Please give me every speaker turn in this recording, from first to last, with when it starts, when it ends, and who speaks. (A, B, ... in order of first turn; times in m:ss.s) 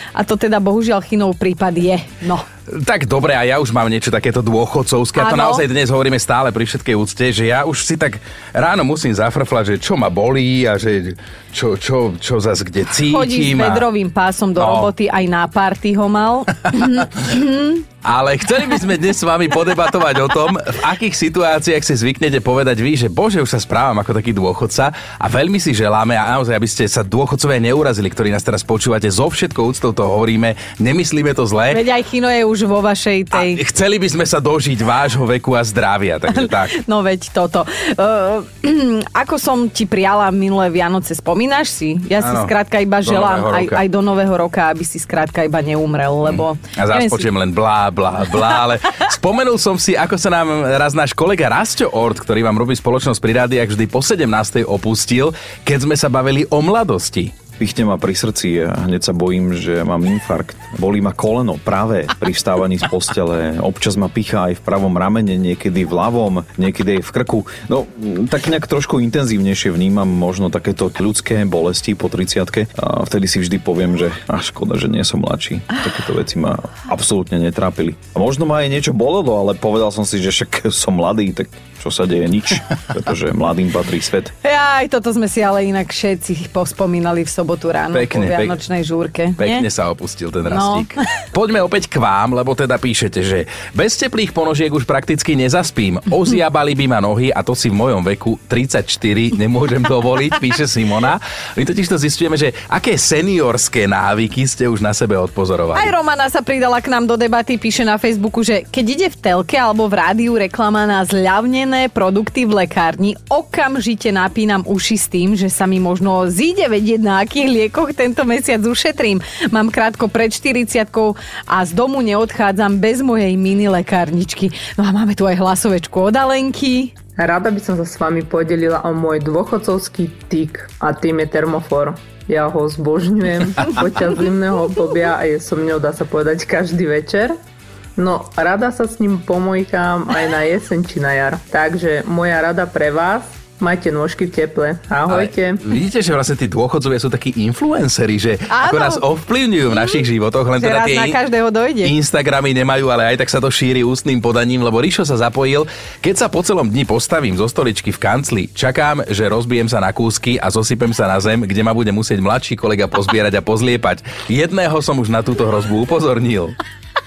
0:00.1-0:02.4 A
0:02.7-0:13.8 B
0:05.2-0:05.6 A
0:13.1-0:17.8 A
0:14.6-0:14.9 B
0:18.0-0:31.8 B
0:31.7-0:33.6 A
0:33.3-0:36.7 B
0:36.3-0:47.2 A
0:42.2-0:42.5 B
0:43.0-0:43.8 B
0:46.2-0:57.3 B
0:57.6-1:24.3 C
1:24.4-1:29.6 A
1:27.9-1:28.6 B
1:29.4-1:45.9 B
1:30.5-1:30.9 A
1:45.7-2:06.9 A
2:07.2-2:17.4 D
2:18.0-2:25.6 D
2:25.1-2:31.2 B
2:28.5-2:29.0 A
2:29.7-2:30.0 A
2:30.6-2:31.9 A
2:31.8-2:46.6 B